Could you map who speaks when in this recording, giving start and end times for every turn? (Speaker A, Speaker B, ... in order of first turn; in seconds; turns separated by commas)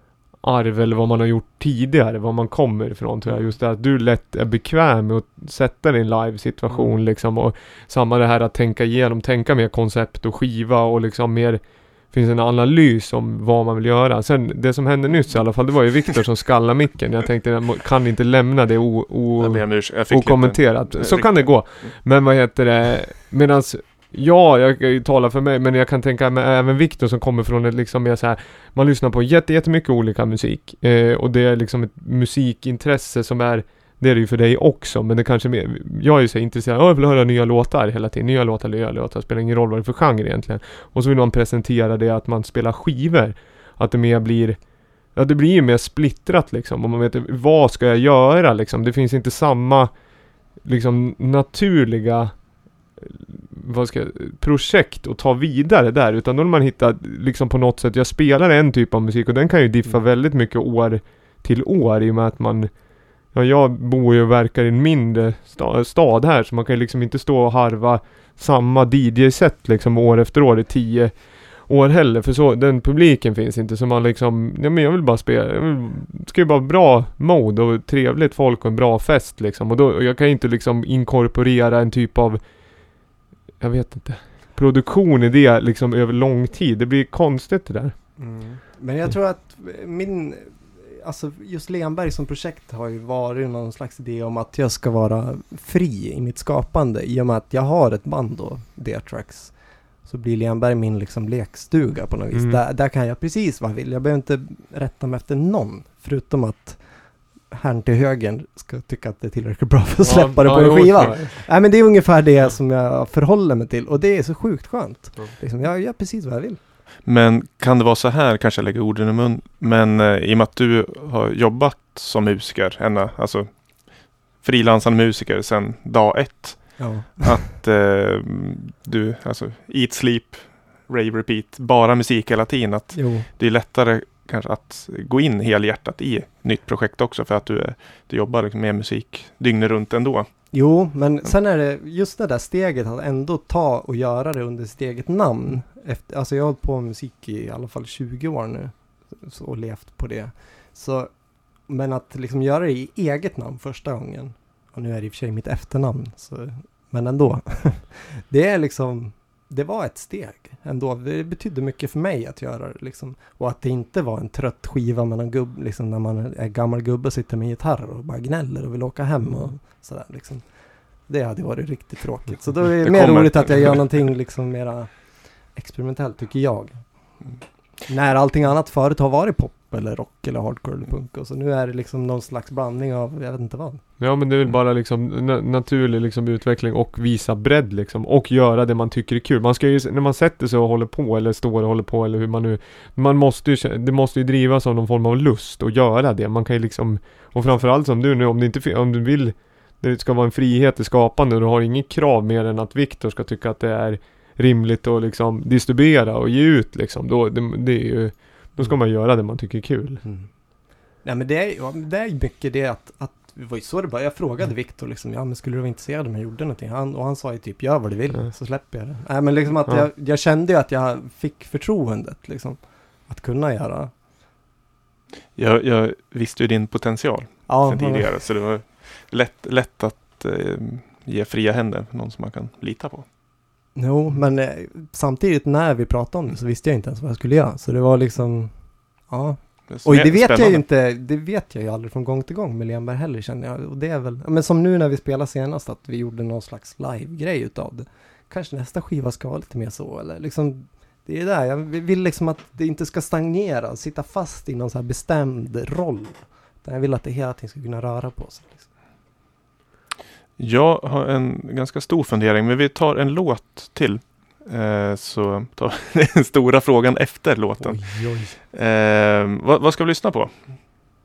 Speaker A: 0.3-49.9, Speaker B: 19.4-21.9, Speaker A: 50.6-52.4, Speaker A: 53.0-62.7, Speaker A: 63.3-82.4, Speaker A: 83.6-87.9, Speaker C: 88.2-106.8, Speaker A: 102.3-102.6, Speaker C: 107.5-116.6, Speaker A: 110.0-111.5, Speaker B: 117.0-140.3, Speaker C: 126.8-127.4, Speaker C: 132.9-133.3, Speaker C: 140.5-151.1, Speaker C: 151.7-170.5, Speaker C: 171.1-177.2, Speaker B: 172.8-174.0, Speaker C: 177.9-183.8, Speaker A: 184.0-210.0, Speaker C: 210.0-210.3, Speaker C: 211.0-223.9, Speaker B: 225.3-233.1, Speaker C: 227.5-228.1, Speaker C: 233.7-238.5, Speaker C: 239.1-258.7, Speaker B: 239.7-240.6, Speaker B: 260.4-270.5, Speaker C: 267.6-268.4